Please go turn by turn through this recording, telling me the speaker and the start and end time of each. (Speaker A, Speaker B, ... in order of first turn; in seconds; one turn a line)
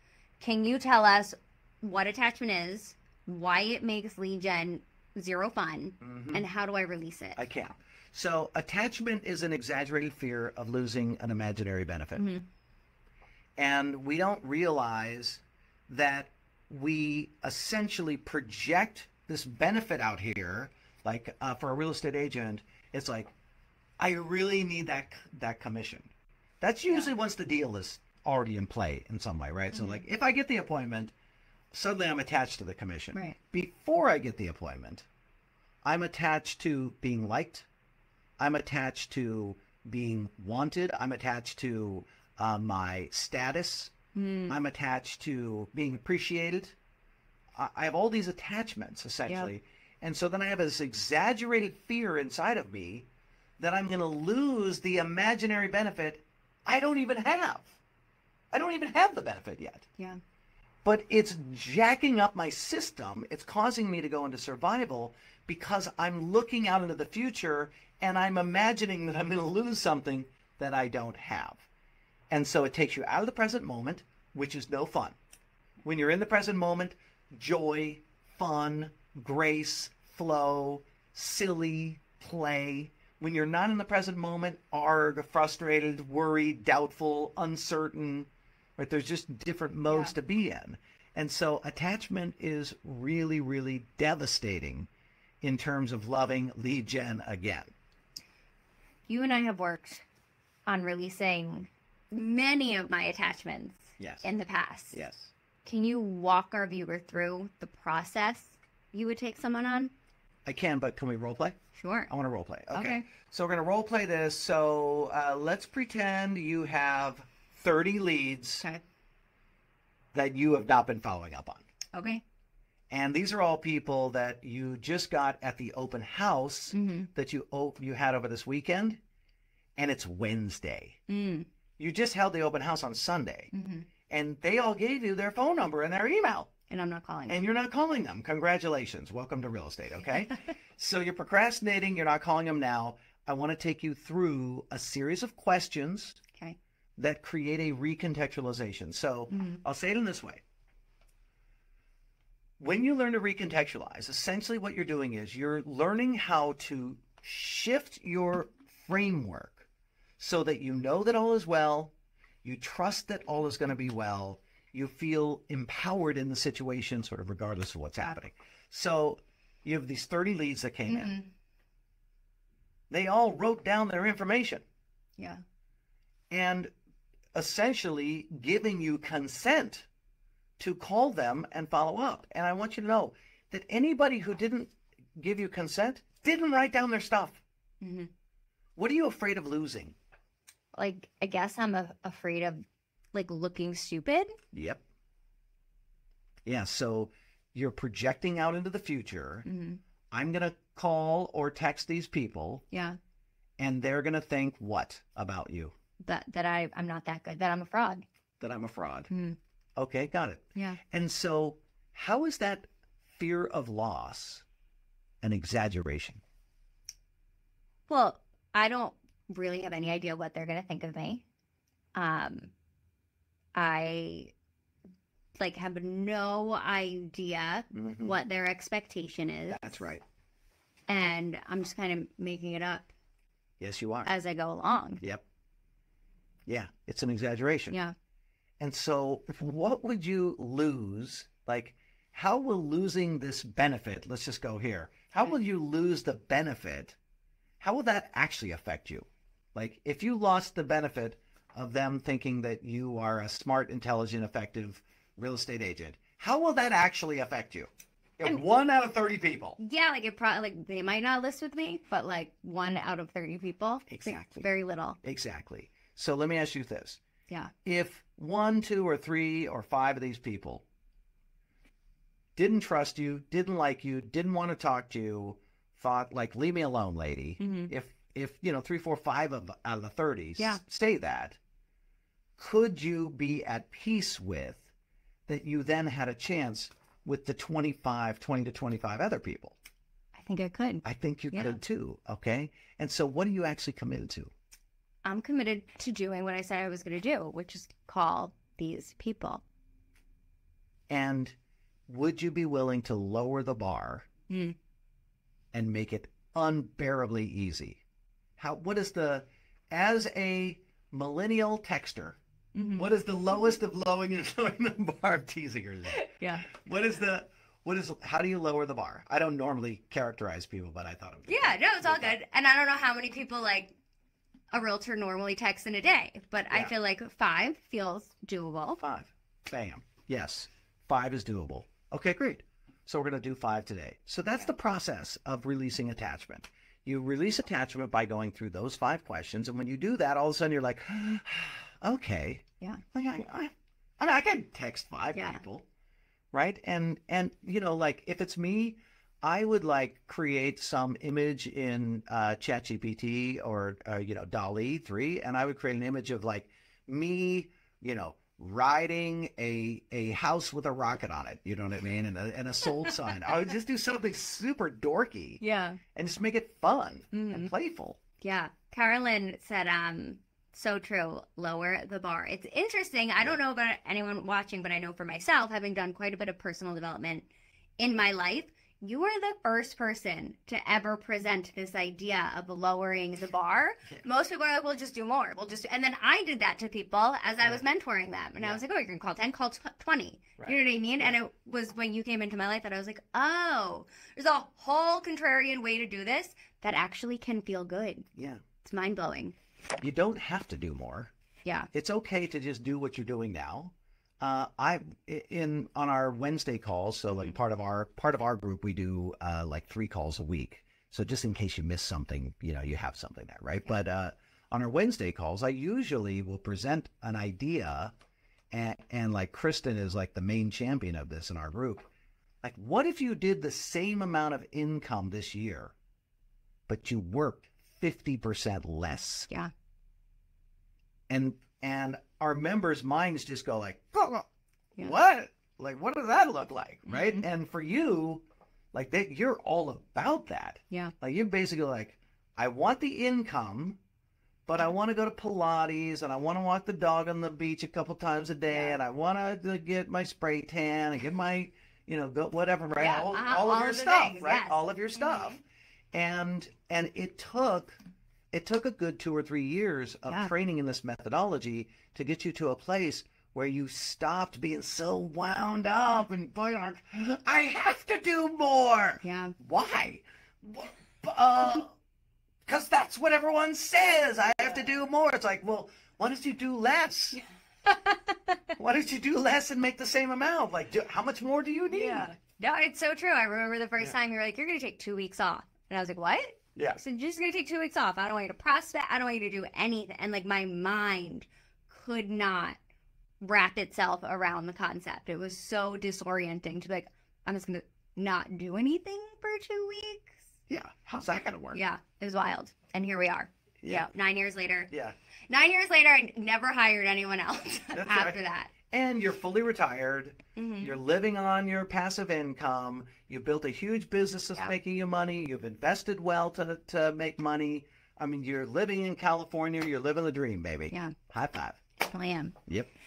Speaker A: 0.4-7.4
Speaker B: 6.0-6.5
Speaker B: 7.4-12.3
Speaker A: 12.2-12.4
Speaker B: 13.6-23.3
Speaker B: 24.0-31.1
Speaker A: 29.7-30.0
Speaker B: 31.7-35.1
Speaker B: 35.8-37.7
Speaker B: 38.4-43.9
Speaker A: 44.1-44.6
Speaker B: 44.5-46.8
Speaker B: 47.5-53.1
Speaker B: 53.6-57.8
Speaker B: 58.5-59.9
Speaker B: 60.9-71.7
Speaker B: 72.3-75.2
Speaker B: 75.8-94.9
Speaker A: 89.9-90.1
Speaker B: 95.4-97.7
Speaker A: 99.1-100.0
Speaker A: 100.7-105.0
Speaker B: 104.0-104.3
Speaker B: 104.9-105.3
Speaker A: 105.7-109.9
Speaker B: 110.5-111.6
Speaker A: 111.8-112.1
Speaker B: 112.1-118.6
Speaker A: 112.7-113.1
Speaker B: 120.1-121.7
Speaker A: 121.9-122.2
Speaker B: 122.9-129.0
Speaker A: 126.7-127.1
Speaker B: 129.8-131.0
Speaker A: 131.1-131.5
Speaker B: 131.8-133.5
Speaker A: 133.5-133.9
Speaker B: 134.1-136.5
Speaker A: 136.7-137.4
Speaker B: 137.3-146.2
Speaker B: 147.0-150.4
Speaker A: 149.3-149.6
Speaker B: 152.6-159.7
Speaker B: 160.2-161.9
Speaker B: 162.4-171.1
Speaker A: 170.9-171.3
Speaker B: 172.9-174.6
Speaker B: 176.3-176.7
Speaker B: 177.3-179.9
Speaker B: 180.6-187.4
Speaker A: 187.8-188.1
Speaker B: 188.8-190.0
Speaker A: 190.7-194.3
Speaker B: 194.5-194.8
Speaker B: 196.5-199.5
Speaker A: 199.5-199.8
Speaker B: 200.1-202.7
Speaker A: 202.7-203.0
Speaker B: 203.6-205.7
Speaker A: 206.0-208.0
Speaker B: 208.4-209.1
Speaker A: 209.1-209.4
Speaker B: 209.8-214.4
Speaker A: 210.6-210.8
Speaker B: 215.2-216.2
Speaker A: 217.9-221.2
Speaker A: 221.9-222.5
Speaker A: 223.6-224.3
Speaker A: 225.3-229.9
Speaker B: 227.7-228.2
Speaker B: 229.5-230.0
Speaker A: 230.9-232.9
Speaker B: 233.6-234.1
Speaker A: 234.1-235.0
Speaker B: 236.5-237.8
Speaker B: 238.6-247.0
Speaker B: 247.6-259.6
Speaker A: 259.6-265.0
Speaker B: 263.9-264.5
Speaker B: 265.0-267.0
Speaker B: 267.6-270.6
Speaker B: 272.4-281.4
Speaker A: 277.4-277.7
Speaker B: 282.4-284.7
Speaker B: 285.3-289.6
Speaker A: 290.1-291.6
Speaker B: 290.9-294.3
Speaker A: 295.1-299.4
Speaker B: 300.9-301.4
Speaker B: 301.9-304.1
Speaker A: 304.3-304.6
Speaker B: 305.5-307.8
Speaker B: 308.4-312.2
Speaker A: 312.6-312.9
Speaker B: 312.8-322.2
Speaker A: 315.9-316.5
Speaker A: 321.3-323.7
Speaker A: 324.5-328.8
Speaker B: 328.8-345.7
Speaker A: 345.1-345.4
Speaker B: 346.3-365.4
Speaker A: 365.4-365.8
Speaker B: 365.9-368.0
Speaker A: 367.1-367.5
Speaker A: 368.2-377.3
Speaker A: 377.8-398.1
Speaker B: 390.4-391.1
Speaker B: 398.2-398.4
Speaker A: 398.6-399.4
Speaker B: 399.8-401.1
Speaker A: 401.4-401.7
Speaker B: 401.7-417.9
Speaker B: 418.5-421.9
Speaker B: 422.4-425.7
Speaker B: 426.7-429.3
Speaker B: 431.1-434.3
Speaker B: 434.8-443.8
Speaker A: 436.9-437.2
Speaker B: 444.5-455.4
Speaker A: 448.5-448.8
Speaker A: 452.8-455.4
Speaker B: 455.9-457.8
Speaker B: 458.3-471.7
Speaker A: 469.0-469.3
Speaker B: 472.5-477.2
Speaker A: 477.1-478.4
Speaker B: 478.6-482.1
Speaker A: 481.7-492.6
Speaker A: 493.2-500.3
Speaker B: 500.5-501.6
Speaker A: 501.5-504.7
Speaker B: 503.6-503.9
Speaker B: 504.7-504.9
Speaker A: 505.3-508.5
Speaker B: 507.7-508.2
Speaker B: 508.7-521.6
Speaker A: 510.4-510.8
Speaker A: 521.8-522.4